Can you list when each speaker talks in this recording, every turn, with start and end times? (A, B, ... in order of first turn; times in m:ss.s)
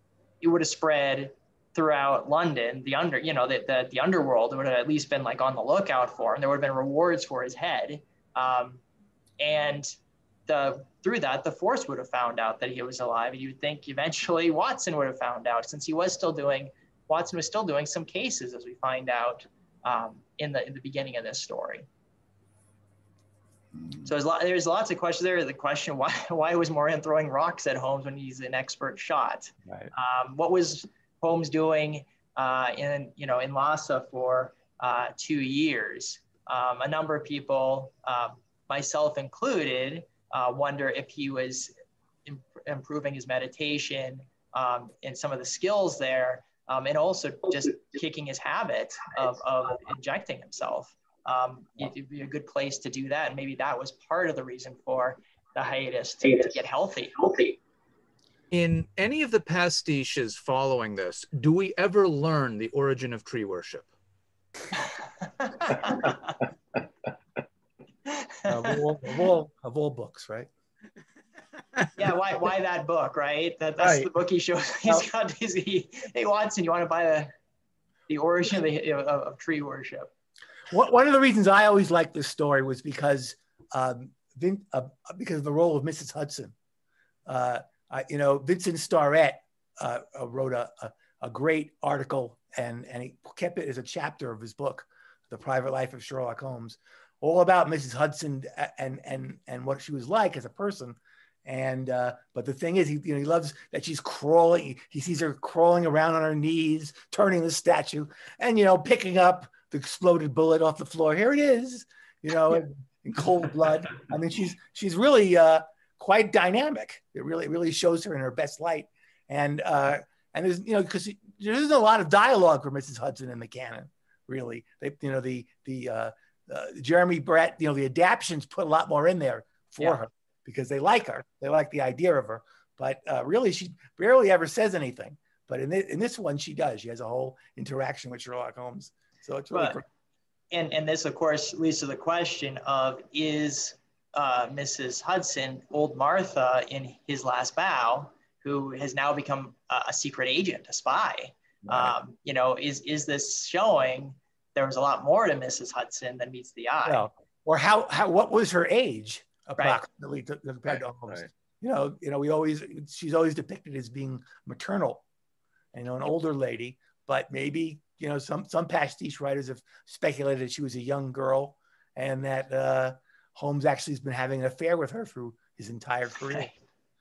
0:00.4-0:08.8 A
0:09.4-0:09.9 A
0:10.5-0:21.9 A
0:24.0-0:41.7 A
0:42.2-0:57.4 A
0:58.5-1:03.9 B
1:05.4-1:06.3 A
1:08.1-1:08.4 A
1:08.4-1:10.5 C
1:12.0-1:17.3 A
1:13.8-1:14.1 B
1:18.1-1:20.1 A
1:20.7-1:26.5 C
1:27.3-2:19.8 C
2:19.5-2:19.8 A
2:20.5-2:37.1 A
2:36.8-2:45.0 C
2:45.7-2:56.5 C